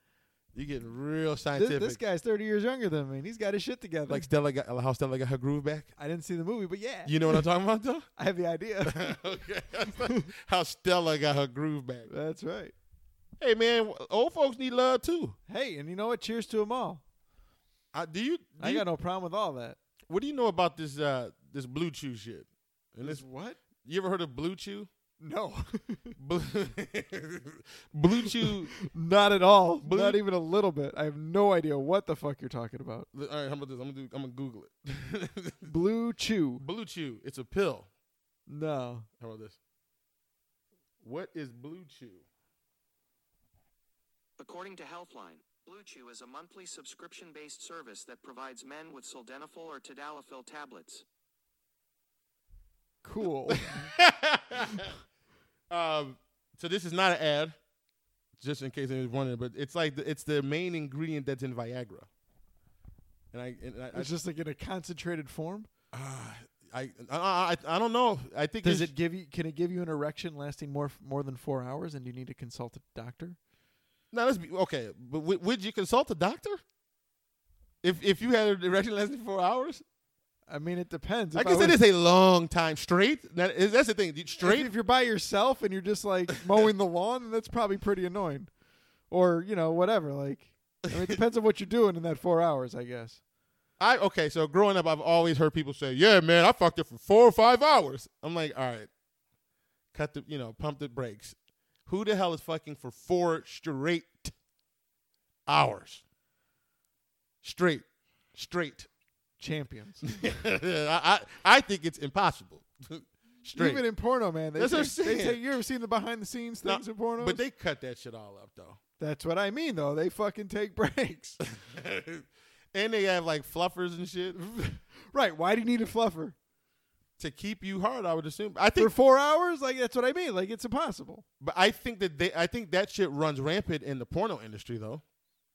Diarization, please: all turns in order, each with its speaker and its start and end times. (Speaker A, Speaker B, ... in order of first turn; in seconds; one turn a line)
Speaker A: 0.5-2.0
Speaker B: 1.6-4.3
Speaker A: 4.1-5.9
Speaker B: 6.0-7.4
Speaker A: 7.0-8.1
Speaker B: 8.2-9.2
Speaker A: 8.8-12.1
Speaker B: 12.1-12.7
Speaker A: 13.4-15.4
Speaker B: 15.5-17.0
Speaker A: 17.9-18.9
Speaker B: 18.6-19.8
Speaker A: 20.1-23.2
Speaker B: 23.0-23.6
Speaker A: 23.8-24.9
Speaker B: 25.2-26.2
Speaker A: 26.2-28.8
Speaker B: 28.2-33.1
Speaker A: 29.8-30.2
Speaker A: 33.1-35.7
Speaker B: 35.6-36.6
Speaker A: 36.6-37.9
Speaker B: 38.5-39.1
Speaker A: 39.2-39.6
Speaker A: 41.0-42.2
Speaker C: 44.4-51.0
Speaker B: 53.0-53.9
Speaker A: 53.5-54.9
Speaker A: 55.7-57.5
Speaker A: 58.4-62.1
Speaker A: 63.3-64.1
Speaker B: 63.9-65.7
Speaker A: 65.9-68.9
Speaker B: 68.6-73.4
Speaker A: 74.1-76.6
Speaker A: 77.8-79.8
Speaker B: 80.5-81.8
Speaker A: 81.3-84.7
Speaker B: 84.4-88.5
Speaker B: 89.1-93.2
Speaker A: 93.8-98.9
Speaker A: 99.9-104.3
Speaker A: 105.5-106.0
Speaker A: 107.4-108.9
Speaker B: 109.4-110.1
Speaker A: 110.0-113.8
Speaker B: 113.5-117.4
Speaker A: 114.5-115.4
Speaker A: 116.6-118.8
Speaker B: 119.0-121.4
Speaker A: 121.4-124.4
Speaker B: 124.4-126.3
Speaker A: 127.2-128.9
Speaker B: 128.8-131.2
Speaker A: 131.4-135.0